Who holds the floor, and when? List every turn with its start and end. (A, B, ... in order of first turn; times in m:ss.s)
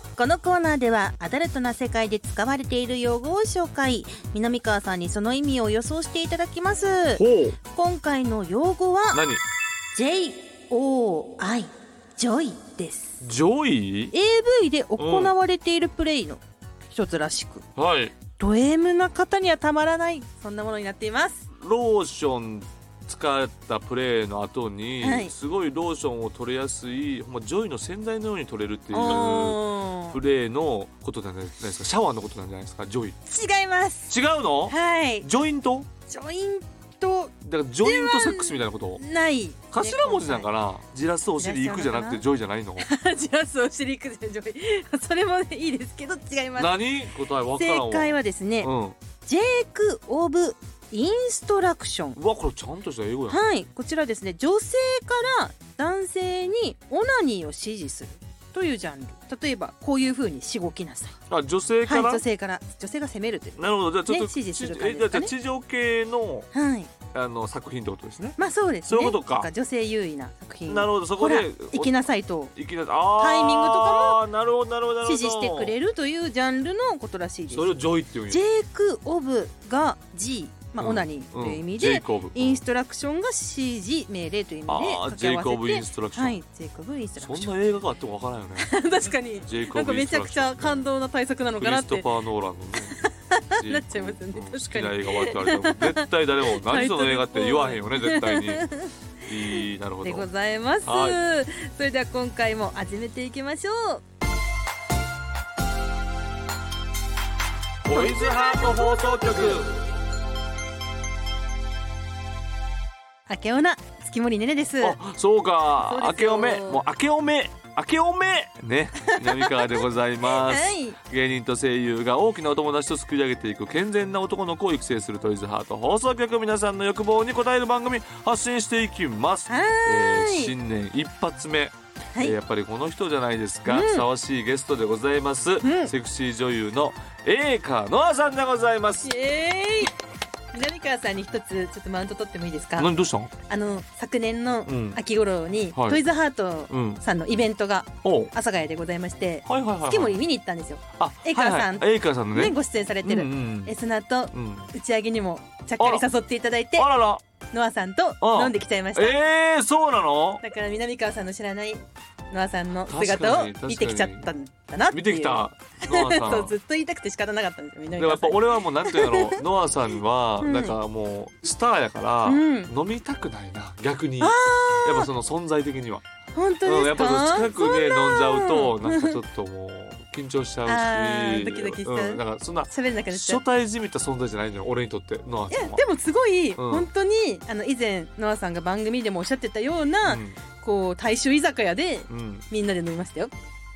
0:00.2-0:09.2 A
0:07.2-0:07.6 B
0:09.1-0:09.4 B
0:09.9-0:13.2 A
0:13.2-0:14.1 B
0:14.1-0:17.6 A
0:15.0-0:15.3 B
0:17.8-0:18.1 B
0:18.4-0:21.5 A
0:21.5-0:33.2 B
0:25.0-0:25.3 A
0:28.9-0:30.2 A
0:33.3-0:34.1 A
0:34.1-0:35.9 B
0:34.7-0:35.2 A
0:36.1-0:40.5 A
0:37.4-0:39.0 B
0:39.7-0:42.9 B
0:41.4-0:42.2 A
0:42.8-0:46.8 A
0:46.6-0:49.0 B
0:47.5-0:52.2 A
0:52.2-0:53.4 B
0:53.3-1:01.2 A
1:01.3-1:02.2 B
1:01.8-1:05.3 A
1:03.6-1:06.5 B
1:06.5-1:06.9 A
1:07.1-1:09.5 B
1:08.4-1:12.5 A
1:10.6-1:12.0 B
1:12.5-1:15.7 B
1:13.2-1:14.2 A
1:15.0-1:17.8 A
1:17.5-1:18.4 B
1:18.3-1:27.5 A
1:20.8-1:22.6 B
1:24.7-1:26.4 B
1:27.2-1:28.8 B
1:28.6-1:32.1 A
1:29.4-1:30.8 B
1:31.6-1:33.0 B
1:32.9-1:38.9 A
1:33.5-1:38.7 B
1:39.2-1:40.3 B
1:39.4-1:44.0 A
1:40.8-1:41.2 B
1:47.8-1:49.8 B
1:47.9-1:49.6 A
1:53.3-1:55.0 A
1:54.8-2:19.1 B
1:55.8-1:56.8 A
1:59.0-2:01.0 A
2:09.5-2:10.5 A
2:13.7-2:14.1 A
2:15.6-2:15.9 A
2:19.0-2:19.9 A
2:20.5-2:22.9 A
2:22.8-2:23.3 B
2:23.4-2:36.9 A
2:24.6-2:25.0 B
2:25.7-2:26.0 B
2:26.7-2:27.0 B
2:28.0-2:28.3 B
2:29.4-2:30.2 B
2:31.0-2:33.7 B
2:34.3-2:34.7 B
2:35.8-2:36.0 B
2:36.8-2:37.2 B
2:37.5-2:39.2 A
2:38.2-2:40.4 B
2:40.4-2:49.4 A
2:42.9-2:44.3 B
2:44.9-2:46.6 B
2:48.0-2:56.0 B
2:50.4-2:50.8 A
2:52.2-2:52.7 A
2:54.2-2:55.1 A
2:56.3-2:59.2 A
2:56.6-3:05.8 B
3:00.6-3:03.4 A
3:05.5-3:13.3 A
3:06.6-3:06.9 B
3:10.0-3:10.4 B
3:12.1-3:12.4 B